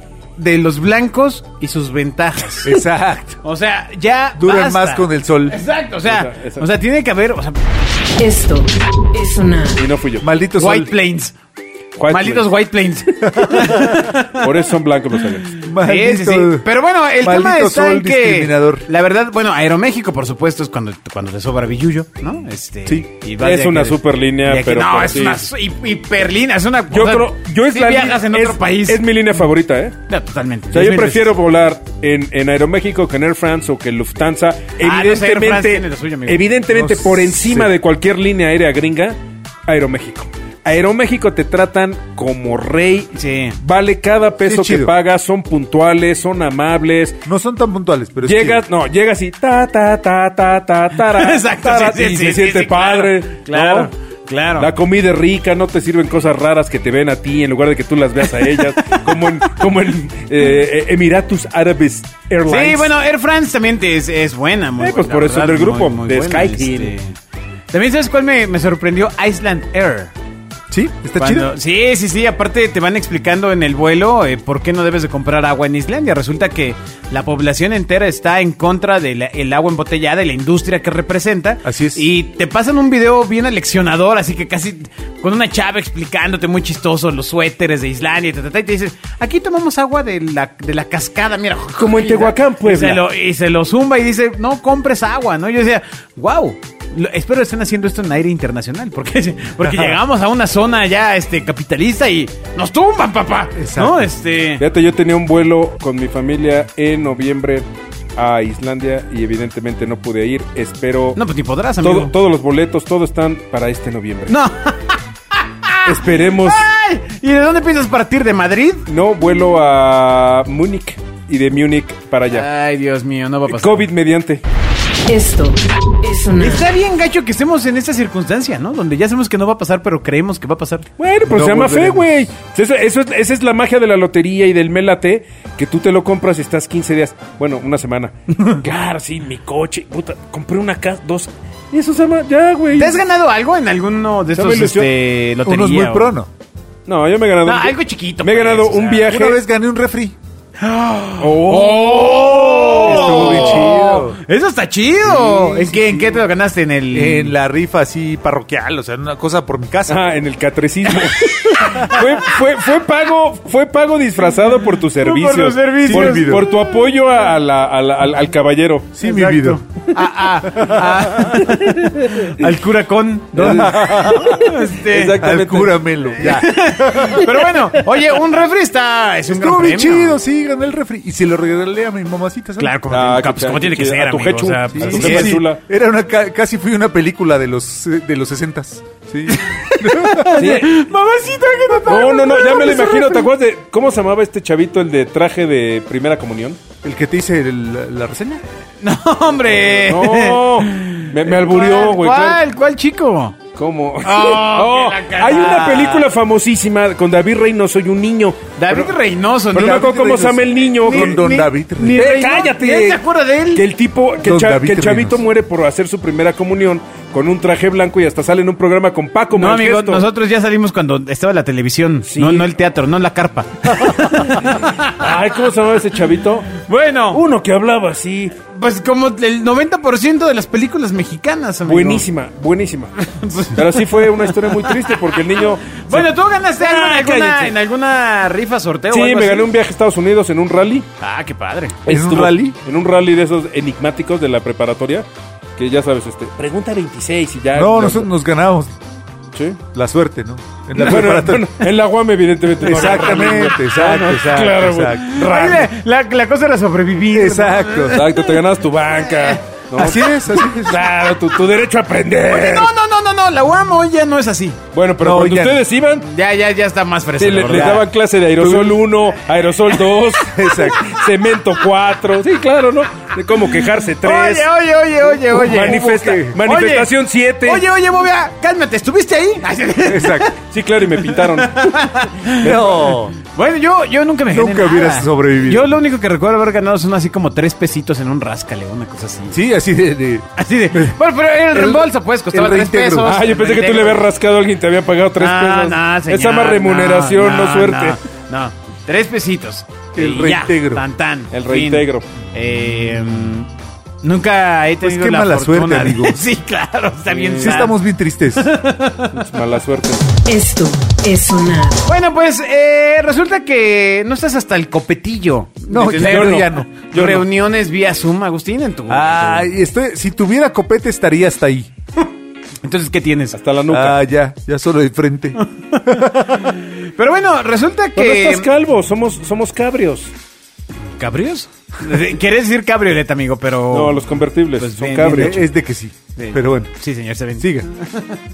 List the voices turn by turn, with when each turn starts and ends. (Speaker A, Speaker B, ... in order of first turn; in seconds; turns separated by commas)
Speaker A: 0.4-2.8, Speaker B: 2.6-3.4, Speaker A: 3.4-7.6, Speaker B: 4.4-5.6, Speaker C: 6.0-6.7, Speaker D: 8.2-9.8, Speaker C: 9.8-10.3, Speaker B: 10.2-10.9, Speaker A: 10.6-11.3, Speaker C: 12.0-12.5, Speaker A: 12.1-14.5, Speaker C: 13.6-15.6, Speaker B: 15.6-16.7, Speaker A: 15.8-29.0, Speaker B: 17.2-18.9, Speaker C: 23.4-25.5, Speaker C: 26.9-30.0, Speaker A: 30.1-31.3, Speaker C: 30.7-39.2, Speaker A: 34.8-36.5, Speaker B: 36.7-37.7, Speaker C: 39.7-47.2, Speaker A: 43.1-43.6, Speaker B: 44.5-44.9, Speaker B: 47.3-48.6, Speaker C: 48.2-53.9, Speaker A: 51.0-54.7, Speaker C: 54.6-62.9, Speaker A: 62.5-67.2, Speaker C: 64.8-67.0, Speaker A: 67.7-70.1, Speaker B: 70.7-71.5, Speaker A: 71.2-104.6, Speaker B: 81.6-82.0, Speaker C: 91.8-93.0, Speaker B: 99.7-99.9, Speaker B: 103.5-104.1, Speaker C: 104.6-111.2, Speaker A: 111.2-112.1, Speaker C: 111.8-114.4, Speaker A: 114.3-118.9, Speaker C: 115.8-116.7, Speaker C: 118.9-122.5, Speaker A: 122.3-123.9, Speaker C: 123.5-124.4, Speaker D: 125.1-126.7, Speaker A: 126.4-130.9, Speaker C: 131.0-143.0, Speaker B: 131.3-132.2, Speaker A: 142.7-146.1, Speaker C: 144.3-144.9, Speaker B: 145.4-146.3, Speaker C: 146.9-149.4, Speaker A: 147.4-149.1, Speaker B: 149.1-150.2, Speaker A: 150.6-157.3, Speaker C: 151.2-153.7, Speaker B: 152.8-154.2, Speaker B: 155.1-156.1, Speaker B: 156.9-160.0, Speaker C: 159.9-168.9, Speaker A: 161.2-162.1, Speaker A: 165.0-166.6, Speaker B: 165.8-166.4, Speaker B: 168.9-169.6, Speaker A: 169.0-175.2, Speaker C: 171.2-172.6, Speaker C: 173.3-176.3, Speaker B: 173.4-174.4, Speaker B: 175.2-177.4, Speaker A: 176.2-180.2, Speaker B: 179.3-182.8, Speaker A: 182.6-185.4, Speaker C: 182.9-185.6, Speaker B: 184.8-190.4, Speaker A: 189.3-193.2, Speaker C: 190.3-190.8, Speaker C: 191.8-196.6, Speaker B: 196.8-198.4, Speaker A: 198.8-203.4, Speaker C: 199.6-202.4, Speaker C: 203.6-209.0, Speaker A: 204.0-206.1, Speaker A: 208.6-213.6, Speaker C: 209.5-211.2, Speaker B: 209.6-210.3, Speaker B: 210.9-212.0, Speaker C: 211.8-213.0, Speaker C: 213.5-220.1, Speaker B: 214.2-215.2, Speaker A: 219.3-225.1, Speaker C: 222.0-222.5, Speaker C: 223.8-226.5, Speaker A: 226.6-227.2, Speaker C: 227.1-228.3, Speaker A: 228.5-232.1, Speaker C: 231.7-232.9, Speaker A: 233.0-239.5, Speaker C: 233.5-237.6, Speaker C: 238.9-240.9, Speaker A: 241.0-241.8, Speaker B: 241.9-242.6, Speaker C: 241.9-245.1, Speaker C: 245.6-248.1, Speaker B: 247.5-248.8, Speaker C: 249.3-249.6, Speaker B: 249.7-251.5, Speaker C: 250.8-255.7, Speaker B: 252.6-255.2, Speaker A: 252.7-253.5, Speaker A: 254.9-258.4, Speaker B: 257.1-258.0, Speaker C: 257.9-262.7, Speaker A: 259.0-259.4, Speaker B: 259.8-260.8, Speaker A: 262.3-264.6, Speaker C: 264.7-266.1, Speaker B: 265.0-265.6, Speaker A: 266.0-267.8, Speaker C: 267.2-274.5, Speaker B: 267.5-268.8, Speaker A: 269.7-271.0, Speaker B: 270.3-270.8, Speaker A: 274.0-276.9, Speaker C: 275.3-277.6, Speaker B: 275.3-276.4, Speaker A: 277.4-280.4, Speaker B: 279.9-280.3, Speaker C: 280.4-281.9, Speaker A: 281.0-289.4, Speaker B: 282.4-283.1, Speaker B: 284.3-285.8, Speaker B: 289.3-291.0, Speaker A: 290.4-294.0, Speaker B: 291.5-293.1, Speaker C: 293.0-298.0, Speaker A: 295.2-303.5, Speaker B: 299.9-300.8, Speaker C: 301.3-302.1, Speaker A: 304.0-307.8, Speaker B: 304.8-306.2, Speaker C: 307.1-307.7, Speaker B: 307.4-308.5, Speaker A: 308.3-309.3, Speaker C: 309.1-310.1, Speaker D: 310.3-311.9, Speaker A: 311.9-319.5, Speaker B: 315.7-316.7, Speaker C: 316.0-317.3, Speaker B: 318.9-321.7, Speaker A: 322.6-323.4, Speaker C: 323.3-324.0, Speaker B: 323.7-326.5, Speaker A: 325.4-328.5, Speaker C: 328.0-330.1, Speaker A: 331.0-335.5, Speaker C: 333.7-335.4, Speaker B: 335.1-336.7, Speaker A: 336.2-338.2, Speaker B: 337.4-337.7